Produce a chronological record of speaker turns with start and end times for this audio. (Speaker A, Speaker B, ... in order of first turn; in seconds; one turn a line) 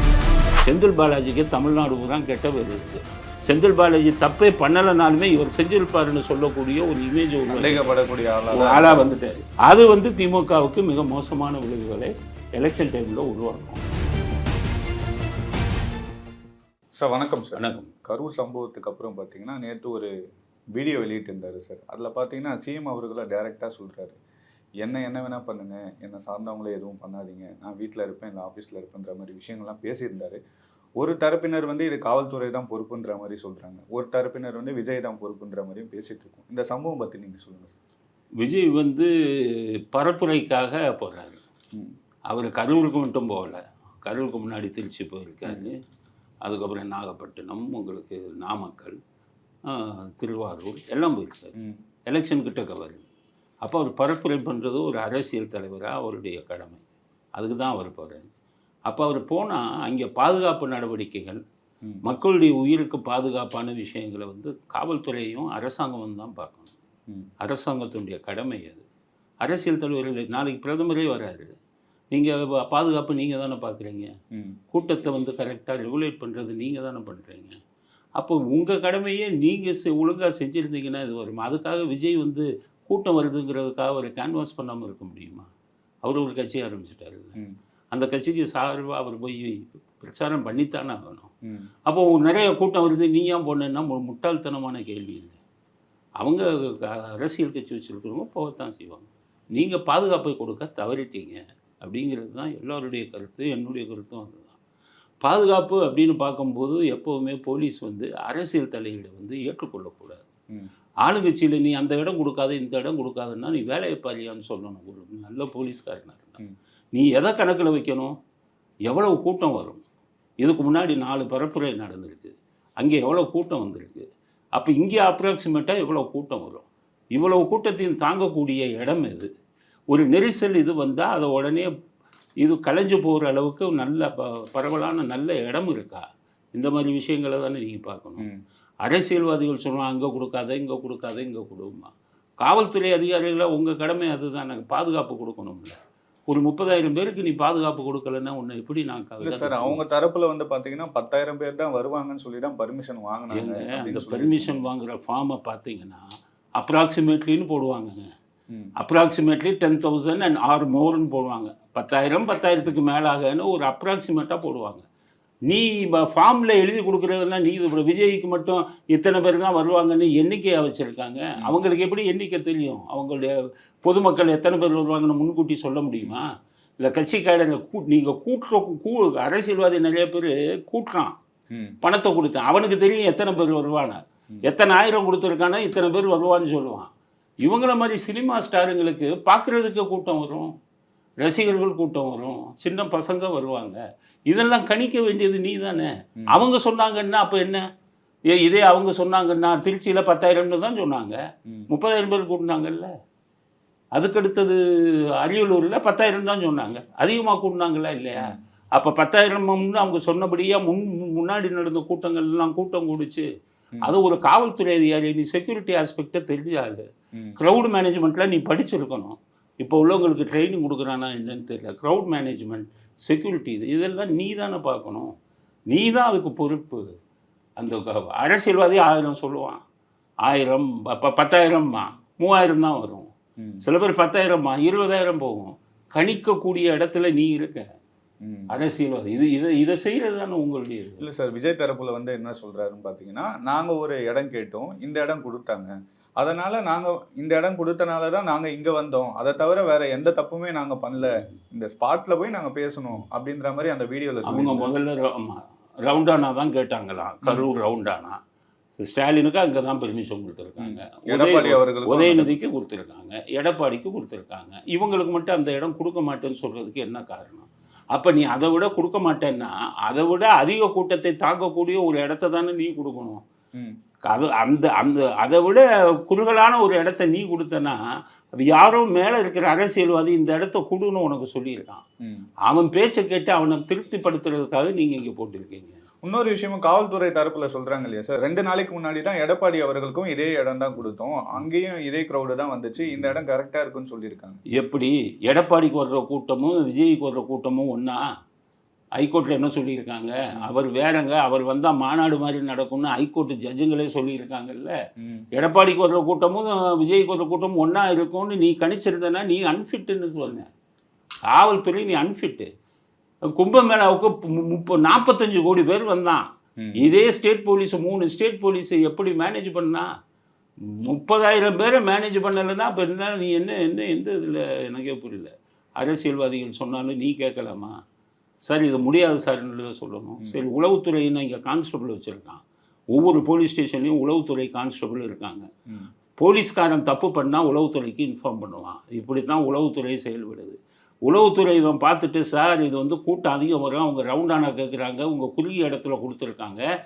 Speaker A: 0.6-8.0
Speaker B: 7.5-9.1
Speaker A: 8.5-13.8
Speaker B: 16.9-20.1
Speaker A: 17.6-17.9
Speaker B: 20.7-24.2
Speaker B: 24.8-30.4
Speaker B: 31.0-37.8
Speaker A: 38.4-41.4
Speaker A: 42.3-45.8
Speaker A: 46.4-49.0
Speaker A: 49.7-51.5
Speaker B: 51.6-51.8
Speaker A: 52.1-53.1
Speaker A: 53.6-56.8
Speaker A: 57.4-58.3
Speaker A: 58.9-61.4
Speaker A: 62.0-66.7
Speaker A: 67.4-68.8
Speaker A: 69.4-71.5
Speaker A: 72.1-74.2
Speaker B: 74.3-74.6
Speaker A: 74.7-77.6
Speaker A: 78.2-85.5
Speaker A: 86.0-87.4
Speaker A: 87.9-91.3
Speaker B: 91.5-91.7
Speaker A: 91.9-95.4
Speaker A: 96.2-104.6
Speaker A: 105.2-110.2
Speaker A: 111.0-116.4
Speaker A: 116.9-118.2
Speaker A: 118.9-119.8
Speaker A: 120.4-129.3
Speaker A: 129.9-131.7
Speaker A: 132.4-138.3
Speaker A: 138.8-145.8
Speaker A: 146.3-149.8
Speaker B: 149.2-154.6
Speaker A: 153.3-158.1
Speaker A: 158.8-164.8
Speaker A: 165.5-176.3
Speaker A: 176.8-181.2
Speaker B: 181.5-181.8
Speaker A: 181.8-186.9
Speaker A: 187.4-190.5
Speaker A: 191.2-197.7
Speaker A: 198.3-201.2
Speaker A: 201.7-202.9
Speaker A: 203.9-204.6
Speaker A: 205.2-213.3
Speaker A: 213.8-225.1
Speaker A: 225.7-226.9
Speaker A: 227.6-229.6
Speaker A: 230.2-233.1
Speaker A: 233.6-237.7
Speaker B: 238.2-238.5
Speaker A: 238.5-241.0
Speaker B: 241.0-254.7
Speaker A: 254.3-258.2
Speaker A: 258.8-273.2
Speaker B: 260.6-262.4
Speaker A: 274.0-277.8
Speaker A: 278.3-281.8
Speaker B: 282.0-282.3
Speaker A: 282.5-285.8
Speaker B: 286.0-294.4
Speaker A: 294.6-298.0
Speaker A: 299.0-304.7
Speaker B: 305.0-305.3
Speaker A: 305.3-310.5
Speaker A: 311.3-312.5
Speaker A: 313.4-319.9
Speaker A: 320.7-327.7
Speaker A: 328.5-335.5
Speaker A: 336.2-346.6